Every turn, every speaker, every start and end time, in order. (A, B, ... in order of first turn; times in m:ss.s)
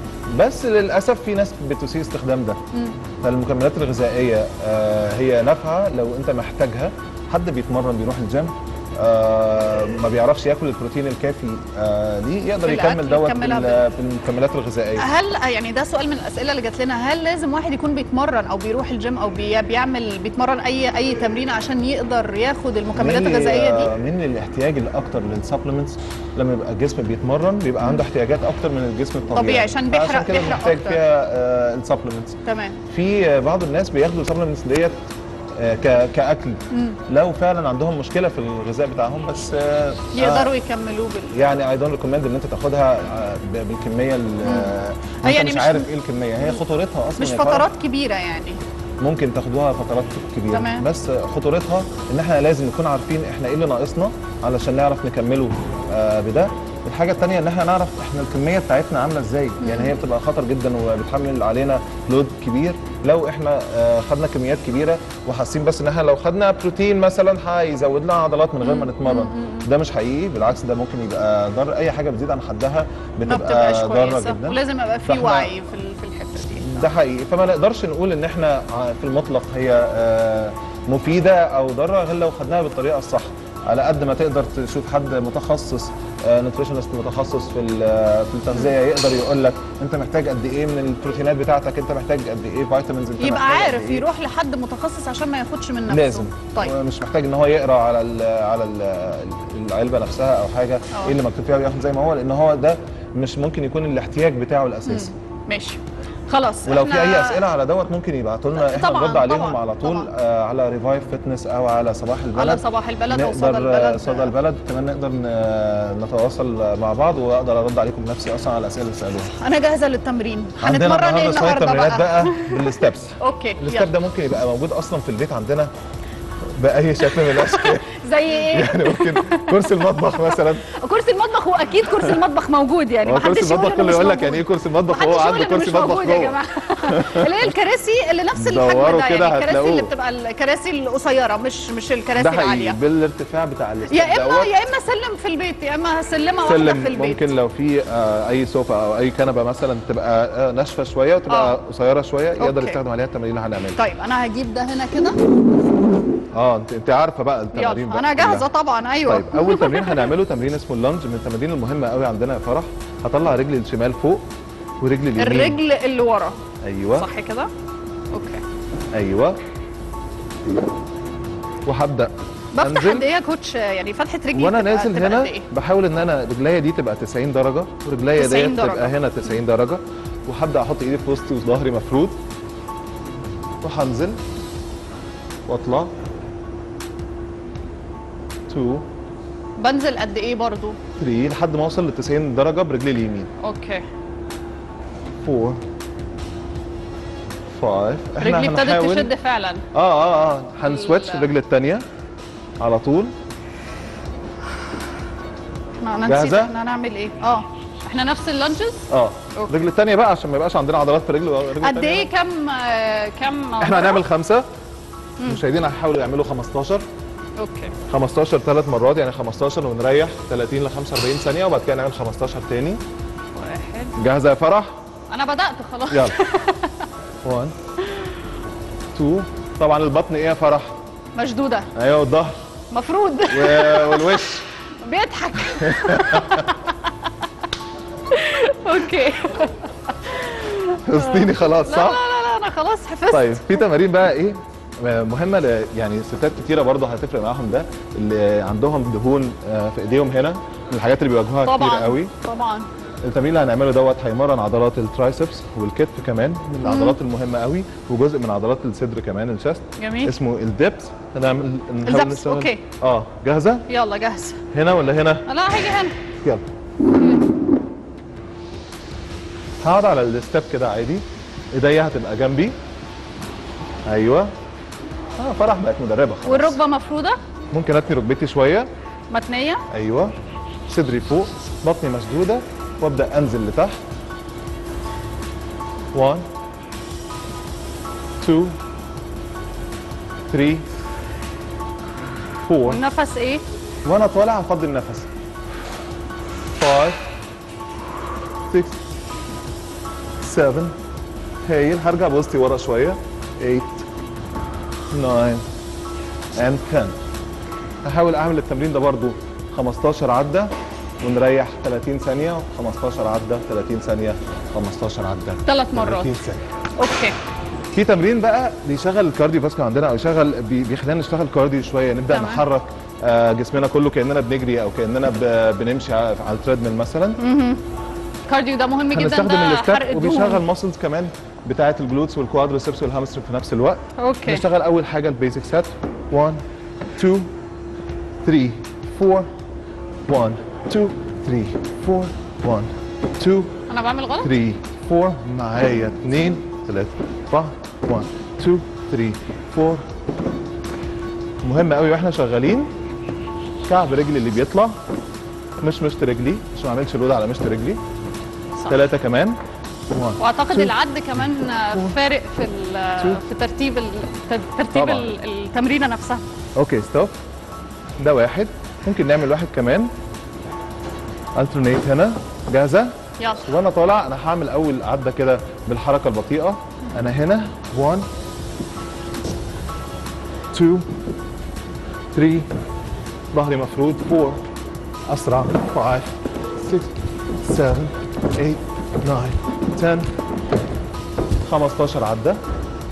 0:00.3-0:02.6 A
0:03.2-0:15.1 A
0:12.6-0:13.8 B
0:15.0-0:23.9 B
0:23.0-0:35.0 A
0:29.3-0:31.0 B
0:32.4-0:32.8 B
0:35.6-0:40.5 A
0:36.7-0:37.0 B
0:40.1-0:41.4 B
0:41.3-0:47.7 A
0:44.4-0:45.9 B
0:47.2-0:48.6 B
0:49.0-1:15.5 A
0:50.5-0:50.9 B
0:59.6-1:00.0 B
1:08.6-1:09.7 B
1:13.3-1:16.9 B
1:16.6-1:34.0 A
1:33.2-1:36.7 B
1:35.9-1:45.1 A
1:44.9-1:47.4 B
1:46.6-1:59.3 A
1:48.6-1:50.1 B
1:52.4-1:54.3 B
1:59.3-2:03.9 B
2:00.6-2:05.7 A
2:06.6-2:10.7 A
2:07.1-2:22.8 B
2:13.0-2:17.3 A
2:18.4-2:19.9 A
2:22.2-2:24.5 A
2:23.9-2:27.2 B
2:26.4-2:33.8 A
2:31.3-2:31.6 B
2:32.4-2:32.8 B
2:33.8-2:35.2 B
2:36.3-2:38.5 A
2:37.5-2:40.1 B
2:39.0-2:44.2 A
2:44.8-2:45.6 A
2:45.2-2:46.4 B
2:46.6-2:47.1 A
2:46.9-2:47.5 B
2:48.1-2:48.4 B
2:48.9-2:49.4 A
2:51.7-2:53.1 A
2:52.5-2:55.5 B
2:54.3-3:02.2 A
2:58.2-2:59.0 B
3:03.6-3:04.2 A
3:05.5-3:05.9 A
3:08.5-3:08.9 A
3:09.6-3:10.8 B
3:11.0-3:13.3 A
3:13.4-3:13.8 B
3:15.2-3:15.6 A
3:17.5-3:19.1 A
3:18.2-3:19.7 B
3:19.7-3:21.8 A
3:20.6-3:21.3 B
3:22.6-3:23.1 A
3:25.8-3:29.6 B
3:26.1-3:26.5 A
3:28.9-3:32.1 A
3:31.6-3:34.0 B
3:33.6-3:34.4 A
3:35.2-3:36.8 A
3:37.4-3:37.8 B
3:37.9-3:42.8 A
3:43.4-3:44.0 B
3:44.0-3:44.8 A
3:45.1-3:46.9 B
3:45.9-3:46.2 A
3:47.2-3:47.6 A
3:47.8-3:48.2 B
3:48.9-3:50.8 A
3:51.2-3:51.7 B
3:51.7-3:52.4 A
3:52.7-3:57.1 B
3:53.3-3:54.5 A
3:55.5-3:56.5 A
3:58.1-4:03.7 B
4:00.8-4:02.0 A
4:03.1-4:12.1 A
4:11.4-4:12.7 B
4:13.0-4:23.7 A
4:16.6-4:17.0 B
4:19.8-4:20.2 B
4:21.8-4:22.6 B
4:23.7-4:24.4 B
4:24.5-4:25.3 A
4:25.3-4:26.0 B
4:29.6-4:32.6 A
4:33.9-4:34.3 A
4:35.2-4:36.6 A
4:36.2-4:37.2 B
4:37.5-4:38.7 A
4:39.1-4:39.6 B
4:39.7-4:40.1 A
4:40.7-4:43.8 A
4:45.9-4:46.3 A
4:48.2-4:48.6 A
4:50.3-4:50.7 A
4:52.4-4:52.8 A
4:52.6-4:53.4 B
4:53.8-4:55.1 A
4:56.6-4:57.0 A
4:58.5-4:58.8 A
5:00.2-5:00.8 A
5:01.5-5:03.9 A
5:04.9-5:05.4 A
5:06.4-5:07.0 A
5:07.8-5:16.5 A
5:15.4-5:16.1 B
5:16.8-5:17.2 B
5:17.7-5:27.2 A
5:22.1-5:22.4 B
5:27.2-5:27.6 B
5:28.3-5:30.4 B
5:28.9-5:36.4 A
5:34.0-5:34.4 B
5:37.0-5:37.3 A
5:38.2-5:39.3 A
5:40.1-5:43.6 A
5:43.7-5:44.3 B
5:44.2-5:49.9 A
5:51.4-5:52.7 A
5:53.7-5:54.8 A
5:55.6-5:57.8 A
5:58.7-5:59.4 A
5:59.9-6:02.0 A
6:00.2-6:06.2 B
6:04.7-6:05.1 A
6:06.6-6:07.1 A
6:08.0-6:09.9 A
6:11.4-6:18.1 A
6:13.2-6:13.5 B
6:20.5-6:20.9 A
6:22.1-6:22.5 A
6:23.3-6:24.4 A
6:25.1-6:30.1 A
6:31.4-6:32.4 A